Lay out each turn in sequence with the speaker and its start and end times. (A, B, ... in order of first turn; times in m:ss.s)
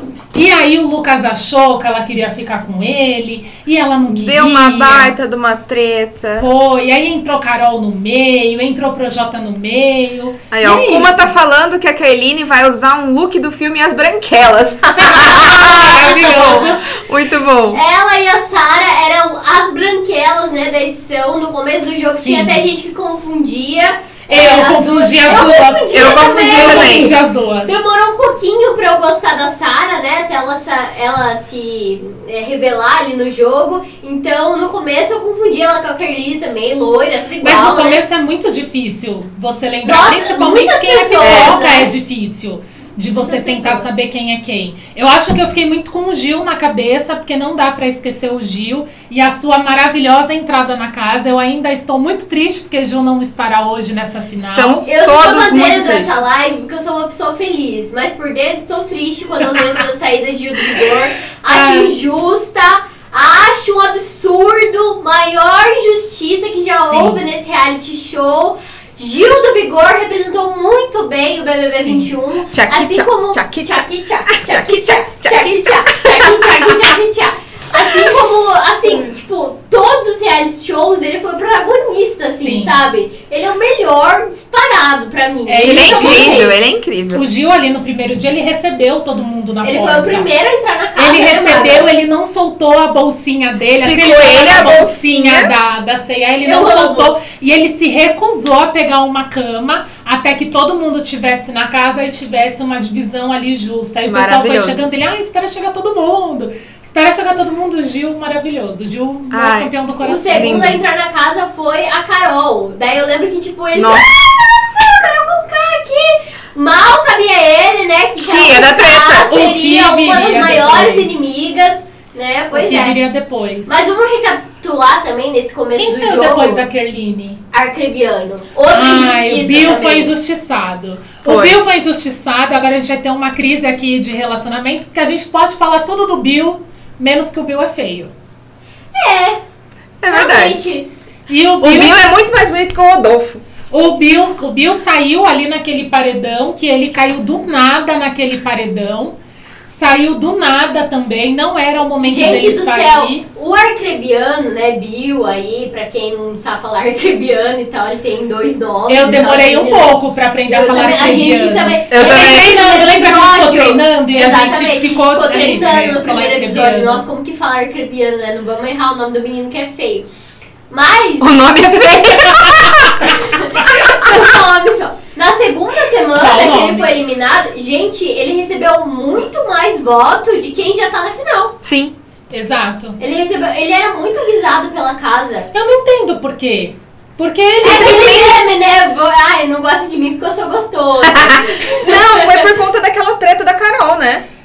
0:00.3-0:05.1 A
0:04.1-0:06.5 B
0:06.4-0:11.3 A
0:10.5-0:17.8 B
0:15.0-0:16.8 A
0:16.2-0:16.7 C
0:17.7-0:38.0 C
0:22.0-0:22.6 A
0:24.3-0:27.8 A
0:25.9-0:27.1 B
0:37.4-0:54.9 A
0:39.8-0:41.9 C
0:41.2-0:41.5 B
0:43.2-0:43.9 C
0:54.4-0:56.4 B
0:54.8-1:26.5 C
1:01.5-1:02.0 A
1:06.7-1:07.2 A
1:11.7-1:12.1 A
1:12.5-1:16.7 B
1:17.9-1:18.2 B
1:22.4-1:22.8 A
1:25.5-1:26.4 A
1:25.6-1:27.2 B
1:27.1-1:30.3 A
1:29.6-1:31.9 C
1:31.0-1:50.8 A
1:33.8-1:35.5 B
1:36.4-1:37.1 C
1:44.1-1:44.8 B
1:49.3-1:49.7 B
1:50.0-2:03.0 C
1:50.3-1:50.8 B
1:53.7-1:54.1 B
1:58.2-1:59.3 B
1:59.3-2:01.2 A
2:02.5-2:03.7 A
2:03.6-2:06.6 C
2:05.8-2:07.4 A
2:07.5-2:10.1 C
2:08.7-2:18.1 A
2:11.2-2:11.6 B
2:18.9-2:19.4 C
2:20.0-2:20.6 B
2:20.1-2:20.9 C
2:21.3-2:22.0 A
2:21.6-2:23.4 B
2:23.7-2:29.1 A
2:29.6-2:33.2 A
2:32.0-2:39.9 C
2:38.9-2:47.0 A
2:40.5-2:50.1 C
2:41.9-2:42.5 B
2:50.7-2:52.0 C
2:51.2-2:53.1 B
2:53.1-3:01.6 C
2:53.7-2:54.2 B
2:56.0-2:56.9 A
3:01.6-3:01.9 B
3:02.3-3:03.0 A
3:03.0-3:05.5 C
3:05.5-3:08.2 A
3:07.6-3:12.5 C
3:07.6-3:08.4 B
3:11.0-3:14.2 B